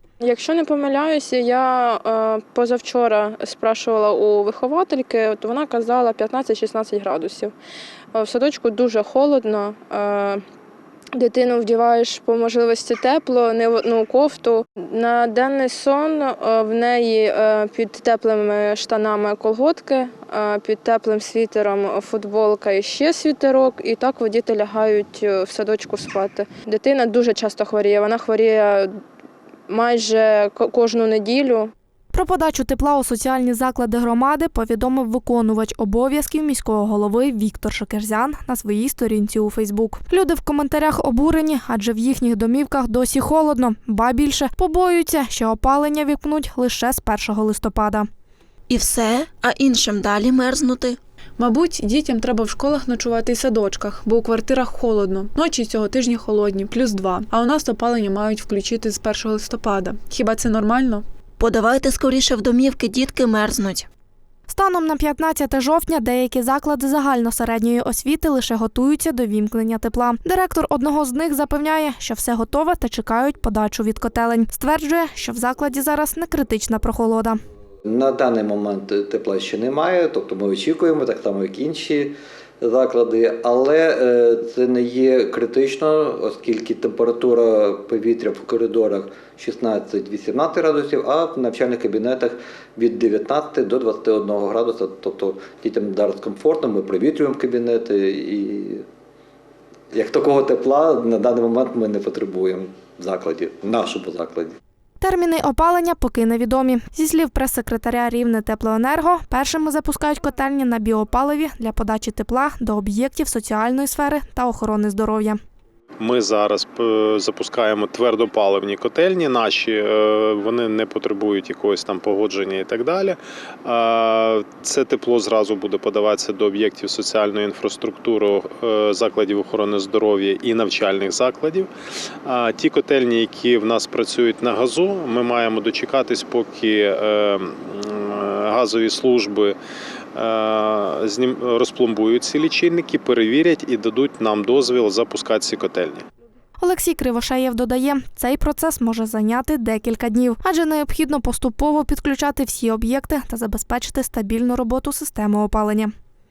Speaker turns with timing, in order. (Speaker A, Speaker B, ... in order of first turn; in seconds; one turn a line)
Speaker A: 0.2-7.5
Speaker A: 8.1-10.4
Speaker A: 11.2-28.9
Speaker A: 29.7-31.7
Speaker B: 32.1-48.1
Speaker C: 48.7-51.0
Speaker D: 51.4-61.0
Speaker C: 61.4-63.9
Speaker B: 64.5-77.4
Speaker E: 77.8-98.8
Speaker E: 99.9-104.6
Speaker B: 105.0-115.4
Speaker F: 116.0-131.7
Speaker F: 132.2-139.5
Speaker F: 140.1-146.1
Speaker B: 146.6-155.9